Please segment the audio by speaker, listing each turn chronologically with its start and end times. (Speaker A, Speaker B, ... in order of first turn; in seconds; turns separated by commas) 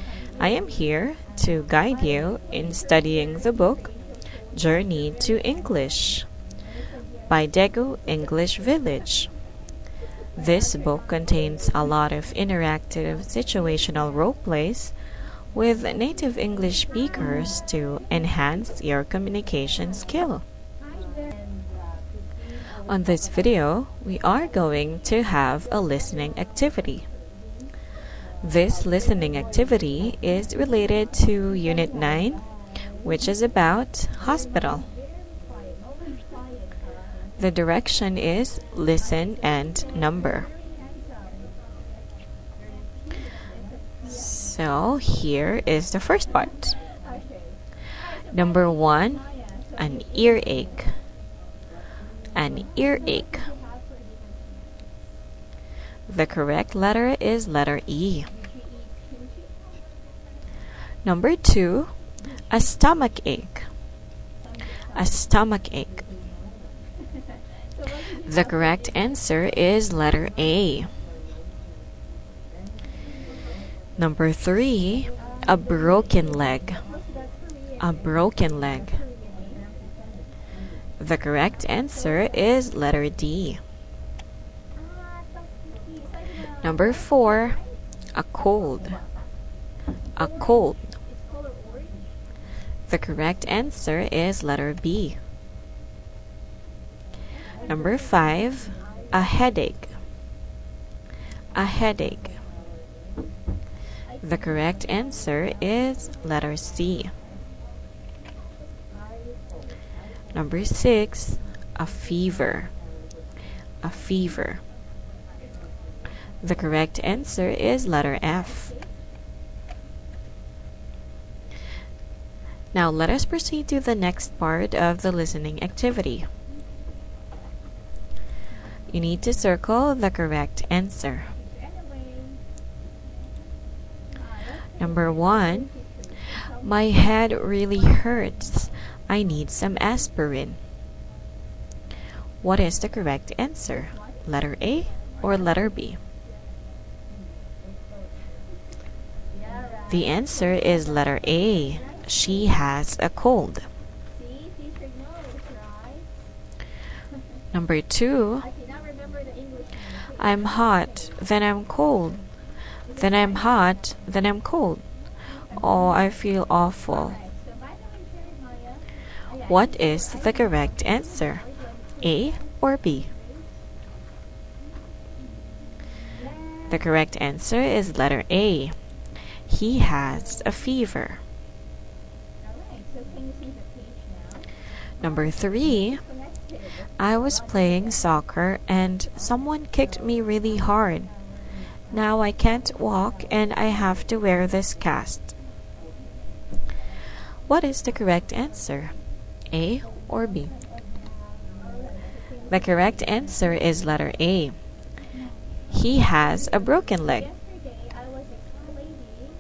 Speaker A: 0.3-3.9, Speaker A: 4.5-6.3, Speaker A: 7.3-9.3, Speaker A: 10.3-14.9, Speaker A: 15.5-20.4, Speaker A: 22.9-27.0, Speaker A: 28.4-32.4, Speaker A: 33.0-34.9, Speaker A: 37.4-40.5, Speaker A: 44.0-46.8, Speaker A: 48.3-50.9, Speaker A: 52.3-53.5, Speaker A: 56.1-58.3, Speaker A: 61.0-61.9, Speaker A: 62.5-63.7, Speaker A: 64.9-66.0, Speaker A: 68.2-70.9, Speaker A: 74.0-76.8, Speaker A: 77.8-79.0, Speaker A: 81.0-83.6, Speaker A: 86.6-87.6, Speaker A: 88.1-89.0, Speaker A: 90.2-90.8, Speaker A: 92.9-95.2, Speaker A: 97.7-99.9, Speaker A: 101.5-102.4, Speaker A: 104.2-107.1, Speaker A: 110.3-112.7, Speaker A: 113.8-114.6, Speaker A: 116.4-118.7, Speaker A: 122.7-126.3, Speaker A: 128.9-131.3, Speaker A: 134.8-140.6, Speaker A: 142.4-146.0, Speaker A: 149.9-153.7, Speaker A: 157.5-158.5, Speaker A: 159.9-162.2, Speaker A: 162.9-164.8, Speaker A: 165.5-167.2, Speaker A: 169.4-171.5, Speaker A: 172.0-173.1, Speaker A: 176.7-178.8, Speaker A: 179.4-181.2, Speaker A: 185.0-186.0, Speaker A: 187.0-191.1, Speaker A: 191.9-195.3, Speaker A: 197.5-198.9, Speaker A: 199.5-200.5, Speaker A: 202.5-204.6, Speaker A: 205.7-207.3